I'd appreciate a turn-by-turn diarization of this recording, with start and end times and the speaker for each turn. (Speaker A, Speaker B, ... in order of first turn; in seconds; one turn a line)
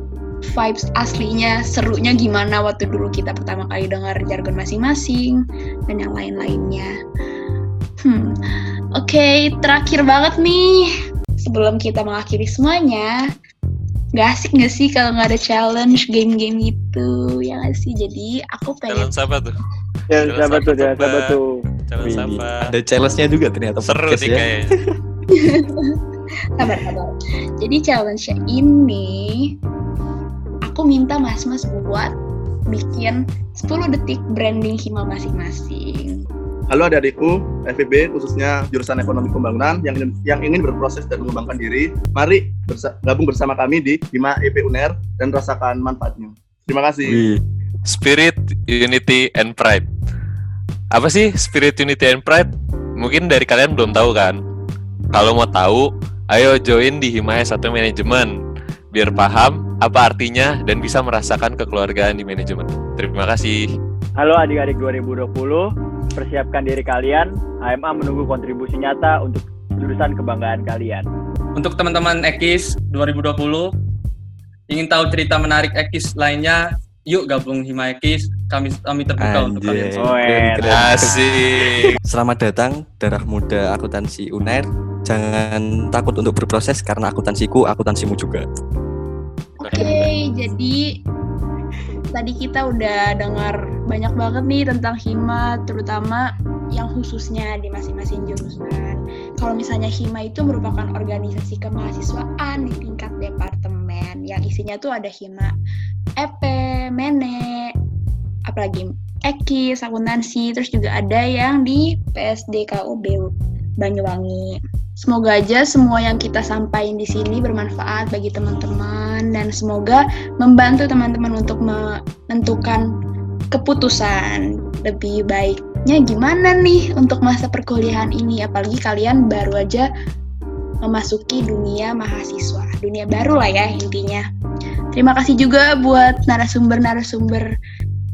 Speaker A: 0.5-6.9
Speaker A: 8.0-8.3
Speaker A: 9.0-13.2
Speaker A: 14.1-19.1
Speaker B: 18.9-19.6
Speaker C: 20.1-21.6
Speaker B: 20.1-22.7
Speaker D: 22.0-24.9
Speaker B: 23.8-24.7
Speaker A: 25.3-25.9
Speaker A: 26.6-29.5
Speaker A: 30.7-32.1
Speaker A: 32.7-36.2
Speaker E: 36.7-47.2
Speaker D: 47.0-47.4
Speaker B: 47.9-49.9
Speaker B: 50.9-54.4
Speaker B: 55.1-58.4
Speaker B: 58.9-63.6
Speaker C: 64.2-71.0
Speaker F: 71.5-73.7
Speaker F: 74.7-80.0
Speaker D: 79.2-88.4
Speaker C: 80.0-80.9
Speaker B: 80.6-82.0
Speaker B: 89.6-90.1
Speaker A: 89.6-90.8
Speaker A: 92.1-96.2
Speaker A: 96.7-105.5
Speaker A: 106.2-107.7
Speaker A: 108.5-122.8
Speaker A: 123.5-129.8
Speaker A: 130.8-134.2
Speaker A: 134.9-137.5